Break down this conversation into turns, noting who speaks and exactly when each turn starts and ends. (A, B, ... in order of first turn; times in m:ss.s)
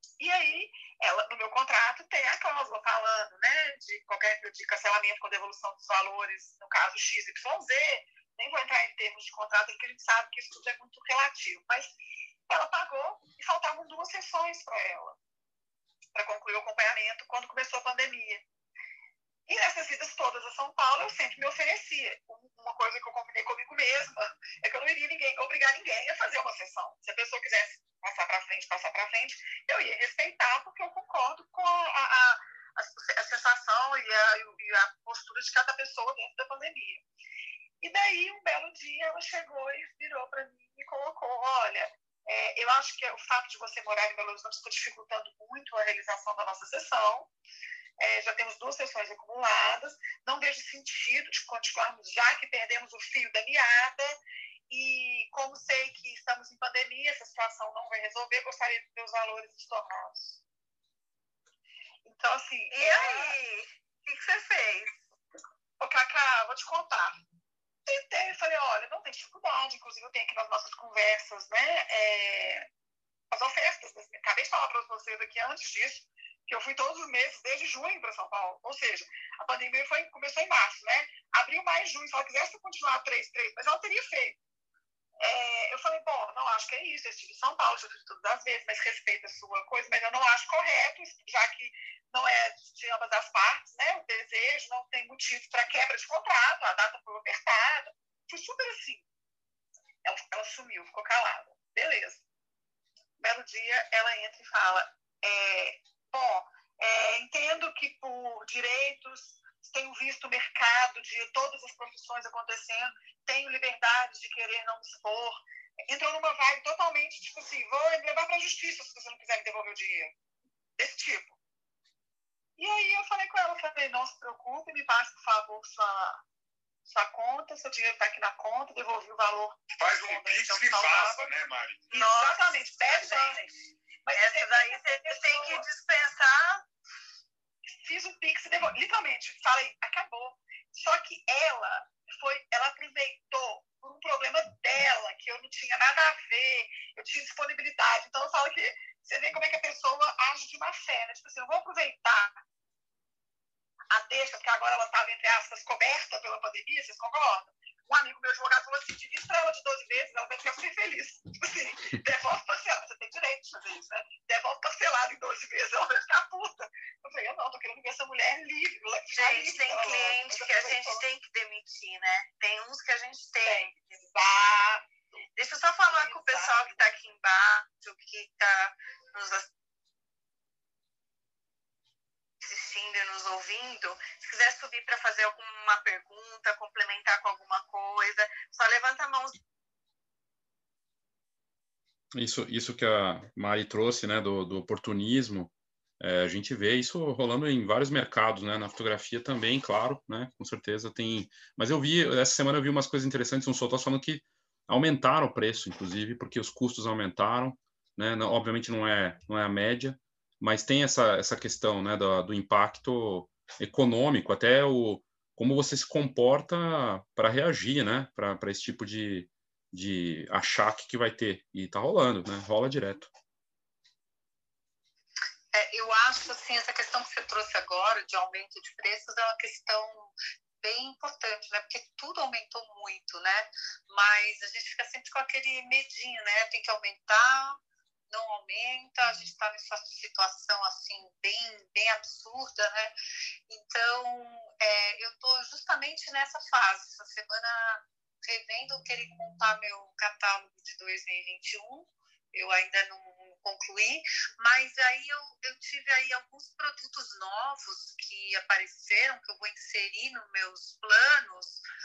0:00.2-0:11.9 A
0:12.5-0:15.2 A
0:16.2-0:18.4 A
0:19.5-0:37.0 A
0:37.8-0:47.3 A
0:48.0-0:54.2 A
0:54.7-1:00.4 A
1:02.1-1:03.4 A
1:02.7-1:05.0 B
1:05.8-1:07.2 A
1:07.9-1:12.7 A
1:13.3-1:24.4 A
1:25.2-1:39.1 A
1:40.0-1:42.2 A
1:43.2-2:00.1 A
2:00.8-2:01.4 A
2:02.6-2:06.2 A
2:06.9-2:11.3 A
2:09.7-2:11.9 C
2:11.9-2:13.5 A
2:11.9-2:13.4 B
2:14.0-2:15.7 A
2:14.1-2:16.6 B
2:17.8-2:32.4 A
2:33.9-2:51.0 A
2:49.1-2:54.0 B
2:53.4-2:54.8 A
2:55.4-2:59.5 B
2:55.9-2:56.8 A
3:02.4-3:09.4 B
3:12.1-3:43.1 D
3:45.5-3:57.6 E
3:58.1-4:02.9 E
4:03.5-4:21.6 E